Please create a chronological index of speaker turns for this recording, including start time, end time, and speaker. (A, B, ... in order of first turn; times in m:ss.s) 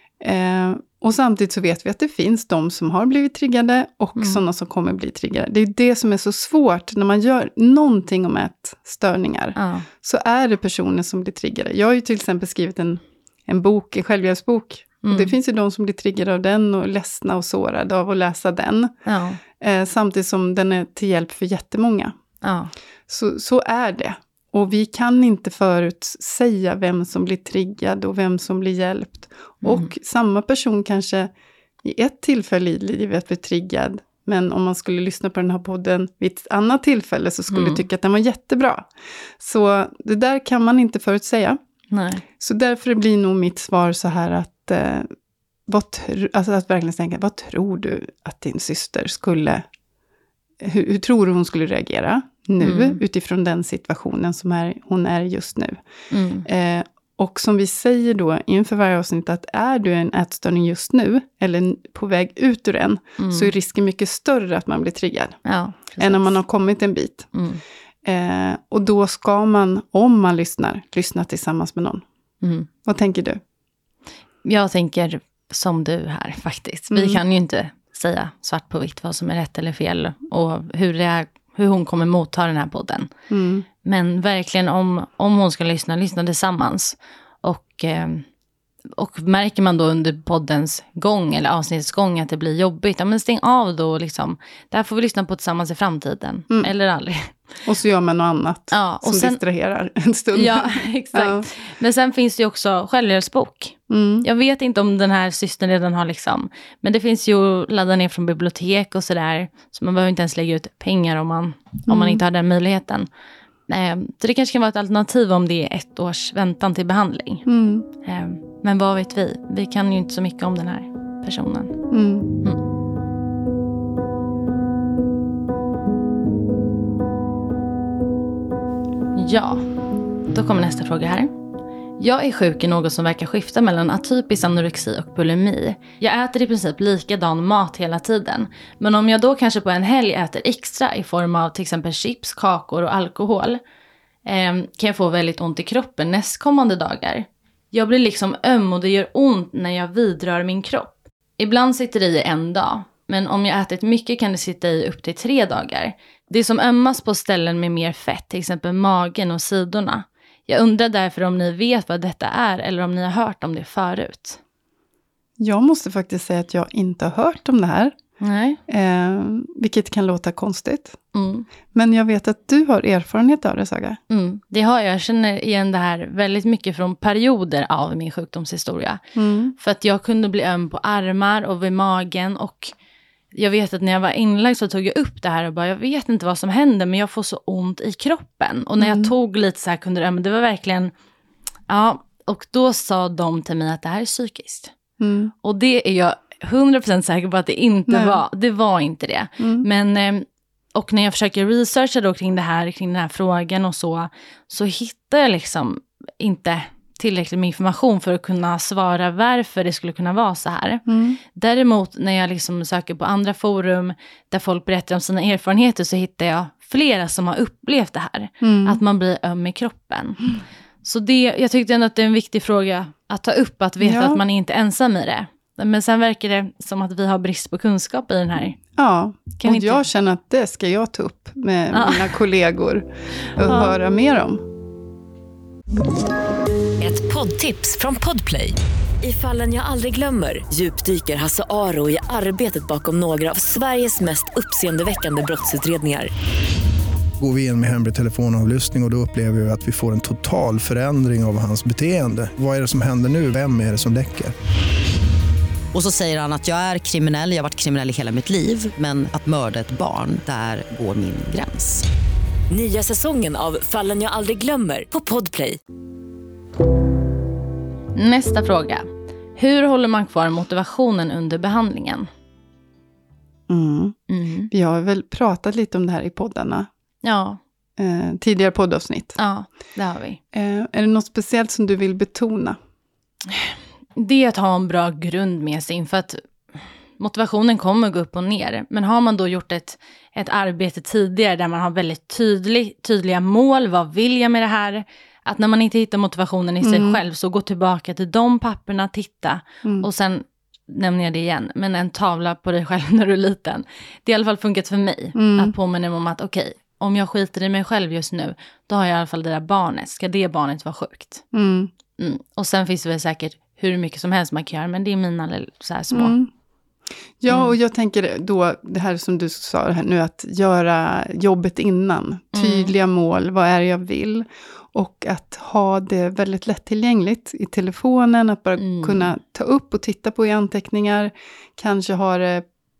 0:00.2-0:18.9 A
0:09.6-0:09.9 B
0:15.0-0:15.3 B
0:19.0-0:19.4 B
0:19.6-0:22.2 A
0:22.4-0:22.7 B
0:23.1-0:31.3 A
0:29.6-0:29.9 B
0:31.8-0:38.9 A
0:37.5-0:37.8 B
0:39.4-0:41.6 A
0:41.9-0:42.2 B
0:42.4-0:45.1 A
0:45.7-0:49.6 A
0:50.6-0:55.8 A
0:52.6-0:53.0 B
0:56.1-0:56.4 B
0:56.4-1:05.4 A
1:03.2-1:03.5 B
1:05.4-1:06.4 B
1:05.9-1:07.3 A
1:07.3-1:07.6 B
1:08.0-1:12.0 A
1:12.4-1:12.7 B
1:12.8-1:13.4 A
1:14.4-1:23.1 B
1:16.9-1:17.2 A
1:23.3-1:23.6 A
1:23.8-1:28.2 B
1:29.0-1:37.5 B
1:37.6-1:41.4 A
1:38.7-1:39.4 B
1:40.3-1:53.1 B
1:43.9-1:44.2 A
1:51.9-1:52.2 A
1:53.7-1:57.4 B
1:57.4-1:57.9 A
1:58.0-2:01.8 B
2:01.9-2:02.3 A
2:09.1-2:09.6 B
2:10.3-2:11.3 B
2:12.0-2:23.6 B
2:24.2-2:44.4 B
2:45.4-2:47.9 A
2:48.2-2:48.6 B
2:48.7-2:51.0 A
2:51.1-2:51.5 B
2:51.7-2:54.0 A
2:54.1-2:59.0 B
2:59.2-2:59.5 A
2:59.6-3:02.7 B
3:03.3-3:10.9 B
3:08.8-3:09.1 A
3:11.7-3:14.7 B
3:15.0-3:15.3 A
3:15.4-3:48.6 B
3:17.9-3:18.2 A
3:19.4-3:19.6 A
3:30.9-3:31.2 A
3:38.4-3:38.8 A
3:43.8-3:44.2 A
3:48.7-3:54.4 A
3:49.4-3:49.8 B
3:51.7-3:52.1 B
3:53.4-3:53.7 B
3:56.8-4:06.1 C
4:07.2-4:14.3 D
4:15.7-4:21.8 E
4:22.5-4:25.6 C
4:27.9-4:32.1 B
4:33.5-4:34.0 A
4:34.1-4:34.5 B
4:34.5-4:36.7 A
4:37.0-4:37.4 B
4:37.8-4:39.2 A
4:39.2-4:40.2 B
4:40.3-4:42.6 A
4:43.3-5:11.2 B
4:56.6-4:57.0 A
5:05.1-5:05.5 A
5:11.3-5:11.7 A
5:12.0-5:16.1 B
5:15.9-5:16.3 A
5:17.2-5:32.4 A
5:22.3-5:22.7 B
5:28.6-5:29.1 B